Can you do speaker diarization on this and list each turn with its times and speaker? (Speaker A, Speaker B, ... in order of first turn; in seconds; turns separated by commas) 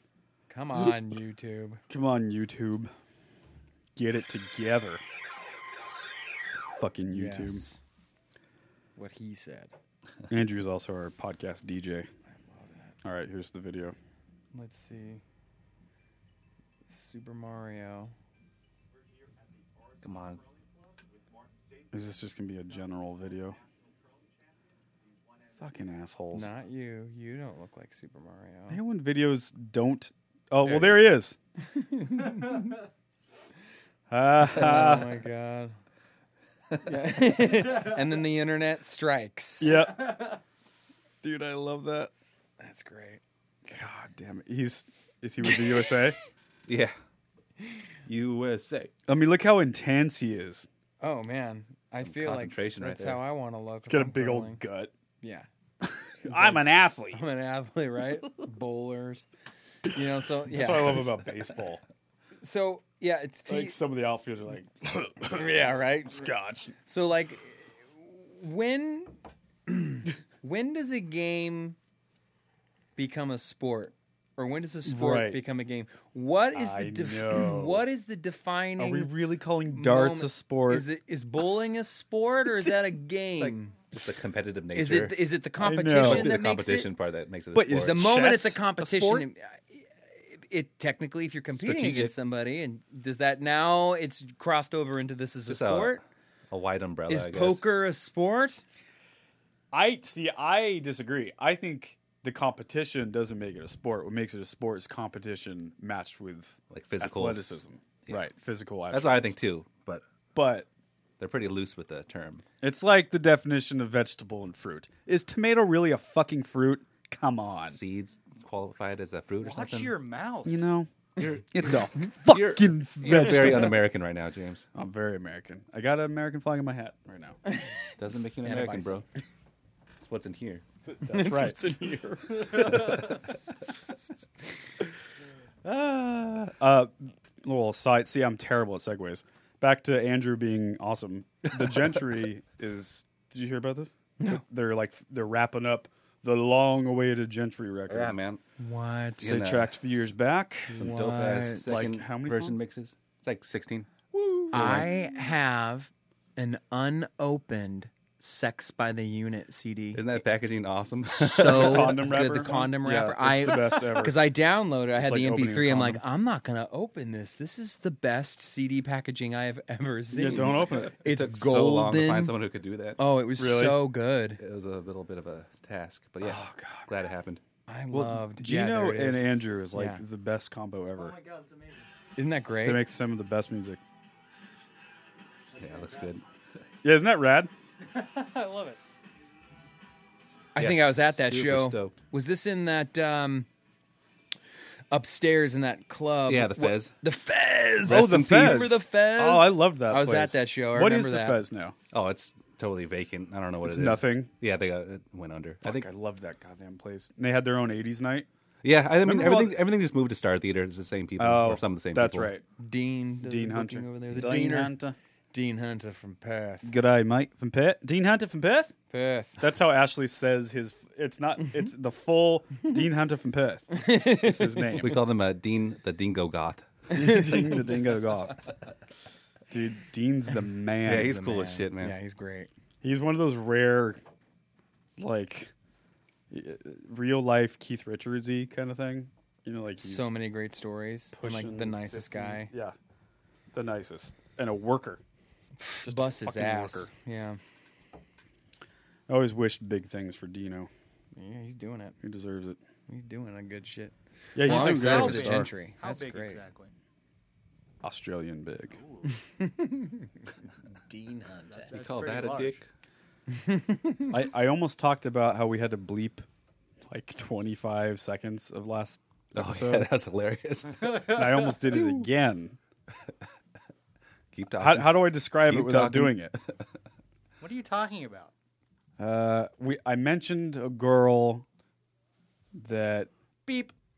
Speaker A: 0.5-1.8, Speaker B: 1.9-2.9, Speaker B: 4.0-5.0, Speaker B: 6.8-7.7, Speaker A: 7.1-7.8, Speaker A: 9.0-9.7, Speaker B: 10.3-12.1, Speaker A: 12.3-12.9, Speaker B: 13.0-14.0, Speaker A: 14.5-15.2, Speaker A: 16.9-18.1, Speaker C: 20.0-20.4, Speaker B: 21.9-23.6, Speaker B: 25.6-26.5, Speaker A: 26.3-28.8, Speaker B: 28.7-31.4, Speaker C: 30.6-31.0, Speaker A: 31.6-32.8, Speaker B: 34.1-35.1, Speaker A: 34.4-35.8, Speaker A: 36.8-39.9, Speaker B: 39.6-40.4, Speaker B: 41.2-42.1, Speaker A: 42.6-43.2, Speaker B: 43.7-46.2, Speaker C: 46.7-47.0, Speaker C: 48.1-48.9, Speaker B: 49.1-50.7, Speaker A: 51.0-54.6, Speaker C: 52.0-53.2, Speaker B: 53.8-54.9, Speaker A: 55.2-55.5, Speaker B: 55.8-57.2, Speaker A: 56.2-59.3, Speaker A: 59.9-61.2, Speaker B: 60.5-61.8, Speaker A: 62.4-63.8, Speaker B: 63.5-66.8, Speaker A: 65.2-66.3, Speaker A: 66.9-69.1, Speaker A: 69.7-71.8, Speaker A: 73.0-79.1, Speaker B: 74.8-75.4, Speaker B: 76.5-77.8, Speaker B: 78.8-80.9, Speaker A: 79.7-83.8, Speaker C: 83.3-85.2, Speaker A: 84.7-86.9, Speaker B: 85.6-86.4, Speaker C: 86.0-88.1, Speaker B: 87.5-89.3, Speaker A: 87.5-96.0, Speaker C: 91.5-92.2, Speaker C: 95.5-97.7, Speaker A: 97.1-98.6, Speaker B: 99.7-109.4, Speaker C: 106.7-108.2, Speaker C: 108.9-110.0, Speaker B: 110.3-110.7, Speaker C: 111.2-112.5, Speaker B: 112.6-117.8, Speaker C: 117.7-120.0, Speaker D: 119.4-120.6, Speaker B: 120.5-123.8, Speaker C: 122.3-124.7, Speaker B: 124.8-127.4, Speaker C: 128.0-129.1, Speaker A: 128.4-129.0, Speaker C: 130.0-130.6, Speaker B: 130.8-131.6, Speaker A: 131.1-133.2, Speaker B: 132.4-132.9, Speaker B: 135.6-148.2, Speaker C: 147.9-148.4, Speaker A: 148.6-149.4, Speaker C: 149.2-149.8, Speaker B: 149.2-151.0, Speaker A: 150.7-151.9, Speaker C: 150.7-154.0, Speaker B: 151.7-152.6, Speaker B: 154.1-154.9, Speaker C: 154.5-154.9, Speaker A: 154.5-160.0, Speaker C: 159.9-162.1, Speaker A: 161.1-172.4, Speaker B: 161.4-164.3, Speaker B: 164.9-166.0, Speaker B: 170.1-171.0, Speaker C: 171.0-173.0, Speaker A: 173.0-174.4, Speaker B: 173.4-173.9, Speaker C: 174.4-177.4, Speaker B: 176.2-176.9, Speaker A: 177.7-180.0, Speaker B: 177.9-181.2, Speaker D: 180.9-181.9, Speaker A: 182.2-182.8, Speaker B: 182.6-183.8, Speaker D: 185.6-186.0, Speaker C: 185.6-186.2, Speaker B: 186.8-187.5, Speaker D: 187.8-188.8, Speaker A: 190.6-193.5, Speaker C: 190.6-191.9, Speaker A: 194.9-201.4, Speaker C: 196.3-196.9, Speaker C: 197.8-198.8, Speaker B: 197.9-201.8, Speaker C: 201.9-205.9, Speaker B: 203.6-204.3, Speaker B: 205.6-208.3, Speaker C: 208.6-212.3, Speaker B: 209.0-209.7, Speaker B: 211.2-212.4, Speaker A: 212.6-214.8, Speaker B: 213.2-215.0, Speaker A: 215.3-216.7, Speaker B: 216.6-218.8, Speaker A: 218.9-219.4, Speaker B: 219.4-225.0, Speaker A: 223.7-224.8, Speaker C: 224.8-227.3, Speaker B: 226.9-228.4, Speaker A: 227.0-227.7, Speaker B: 229.5-231.2, Speaker C: 230.8-232.0, Speaker A: 231.0-232.5, Speaker B: 232.8-234.0, Speaker B: 235.0-235.5, Speaker B: 236.3-240.1, Speaker A: 239.8-242.5, Speaker B: 241.2-242.8, Speaker B: 243.5-245.0, Speaker A: 245.6-247.4, Speaker B: 245.8-246.9, Speaker B: 249.1-250.7, Speaker A: 251.2-252.0, Speaker B: 252.0-252.6, Speaker A: 252.9-256.4, Speaker B: 254.3-255.5, Speaker D: 254.4-256.7, Speaker B: 257.8-258.8, Speaker A: 259.1-260.1, Speaker A: 260.9-261.8, Speaker D: 261.5-262.6, Speaker C: 261.7-262.7, Speaker A: 263.3-264.1, Speaker B: 264.1-266.3, Speaker B: 266.9-269.9, Speaker C: 269.4-271.2, Speaker B: 271.0-272.6, Speaker C: 274.3-276.6, Speaker B: 274.6-276.3, Speaker D: 277.4-278.3, Speaker B: 279.0-281.5, Speaker B: 282.6-283.1, Speaker D: 283.5-283.7